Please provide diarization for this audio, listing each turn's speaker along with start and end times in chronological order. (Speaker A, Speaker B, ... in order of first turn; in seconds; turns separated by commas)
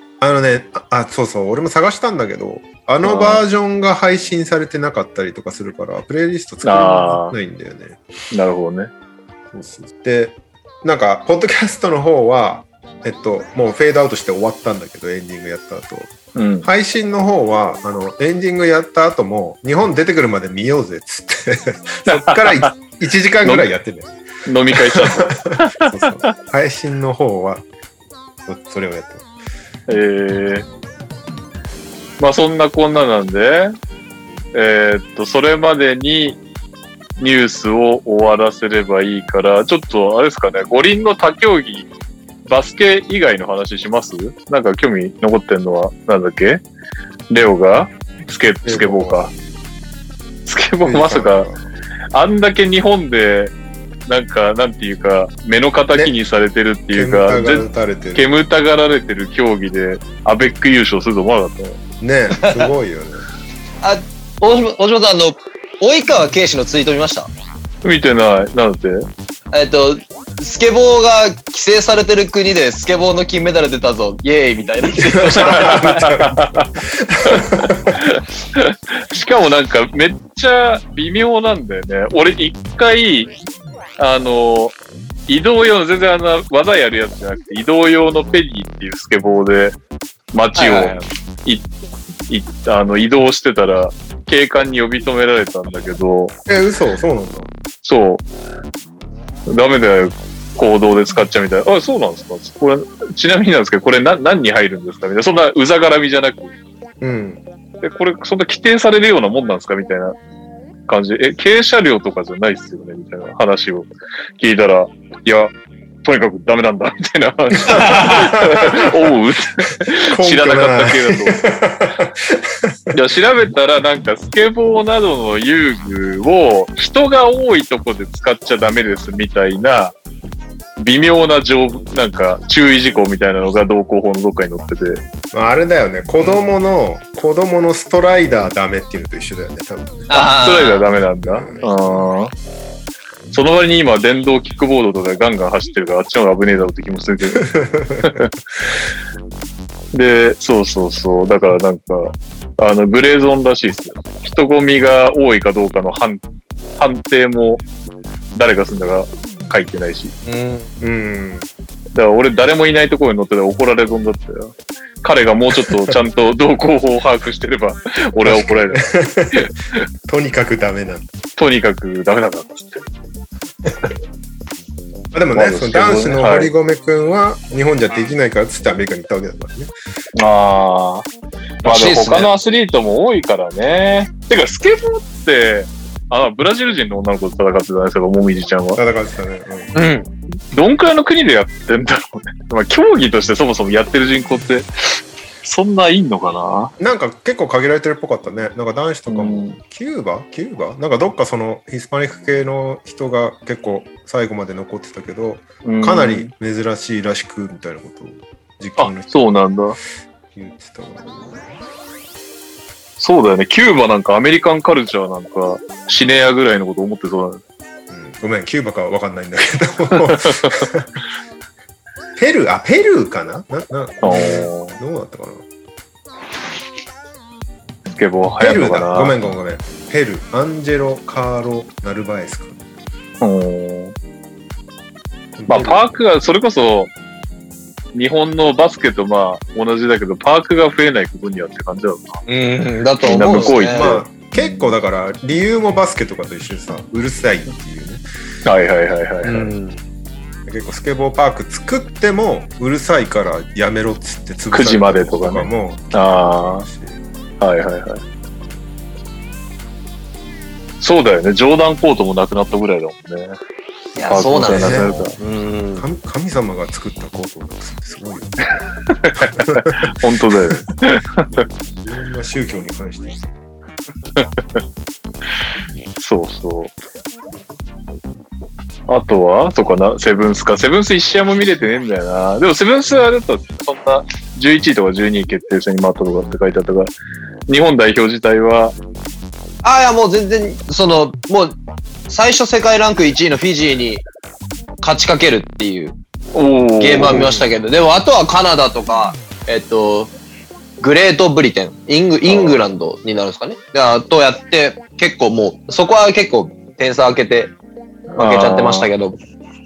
Speaker A: 0.2-8.0, Speaker B: 3.0-3.4, Speaker B: 6.6-7.3, Speaker B: 8.3-8.9, Speaker A: 9.5-24.1, Speaker B: 16.3-16.7, Speaker B: 22.1-22.7, Speaker B: 24.4-26.1, Speaker A: 24.7-27.6, Speaker A: 28.4-29.3, Speaker B: 29.9-30.6, Speaker B: 32.2-33.7, Speaker B: 34.5-36.4, Speaker B: 37.2-41.9, Speaker B: 42.5-46.6, Speaker B: 47.3-49.3, Speaker A: 48.6-49.3, Speaker B: 50.5-51.5, Speaker A: 50.8-51.6, Speaker B: 52.1-53.5, Speaker B: 54.1-61.8, Speaker A: 56.9-58.3, Speaker A: 62.0-63.2, Speaker C: 63.8-67.3, Speaker B: 67.8-69.1, Speaker C: 69.5-76.0, Speaker A: 75.1-78.0, Speaker B: 75.5-76.7, Speaker B: 77.2-83.3, Speaker B: 84.0-84.7, Speaker B: 85.3-89.8, Speaker B: 90.3-91.6, Speaker C: 90.5-91.0, Speaker B: 92.3-96.3, Speaker A: 96.5-97.5, Speaker B: 97.8-98.2, Speaker B: 99.5-106.5, Speaker A: 107.0-107.4, Speaker B: 107.8-110.2, Speaker B: 110.9-121.4, Speaker A: 117.5-119.0, Speaker A: 120.0-123.0, Speaker B: 122.9-129.9, Speaker B: 130.8-135.0, Speaker A: 135.3-140.1, Speaker C: 140.1-140.8, Speaker B: 140.1-142.3, Speaker A: 141.2-142.1, Speaker B: 143.3-148.3, Speaker A: 147.5-148.2, Speaker B: 149.9-156.2, Speaker B: 156.8-157.6, Speaker B: 158.3-160.1, Speaker C: 160.2-160.7, Speaker A: 160.8-161.5, Speaker B: 161.9-169.8, Speaker A: 165.7-165.9, Speaker A: 168.2-169.5, Speaker A: 170.1-171.1, Speaker B: 171.4-172.8, Speaker A: 175.1-179.7, Speaker B: 175.3-176.5, Speaker B: 180.2-181.1, Speaker B: 181.6-188.8, Speaker C: 181.6-182.3, Speaker A: 188.8-189.7, Speaker C: 189.7-190.1, Speaker B: 190.5-194.7, Speaker B: 195.4-196.7, Speaker A: 196.8-209.1, Speaker B: 199.1-199.6, Speaker B: 205.6-206.3, Speaker B: 208.8-209.8, Speaker A: 210.3-211.4, Speaker B: 213.0-217.4, Speaker A: 217.9-220.9, Speaker A: 222.2-225.4, Speaker B: 224.0-224.8, Speaker B: 227.9-229.2, Speaker A: 228.4-232.6, Speaker B: 233.2-233.9, Speaker A: 235.4-235.8, Speaker B: 235.5-236.9, Speaker B: 237.9-242.2, Speaker C: 242.3-244.0, Speaker B: 243.0-244.6, Speaker A: 243.3-248.0, Speaker B: 248.4-249.5, Speaker C: 249.2-249.8, Speaker A: 250.4-257.0, Speaker B: 254.5-256.6, Speaker B: 257.4-258.0, Speaker B: 260.8-263.4, Speaker C: 263.9-265.8, Speaker B: 264.1-265.1, Speaker A: 264.4-265.1, Speaker A: 265.7-268.4, Speaker B: 269.0-271.4, Speaker A: 269.4-269.9, Speaker A: 271.8-273.3, Speaker B: 276.0-276.7, Speaker B: 278.9-286.9, Speaker B: 287.5-288.7, Speaker C: 289.6-291.5, Speaker C: 292.1-294.0, Speaker C: 294.8-295.9, Speaker B: 296.3-297.4, Speaker C: 296.8-300.1, Speaker C: 300.8-307.5, Speaker B: 302.2-302.6, Speaker B: 308.1-308.9, Speaker C: 308.2-309.2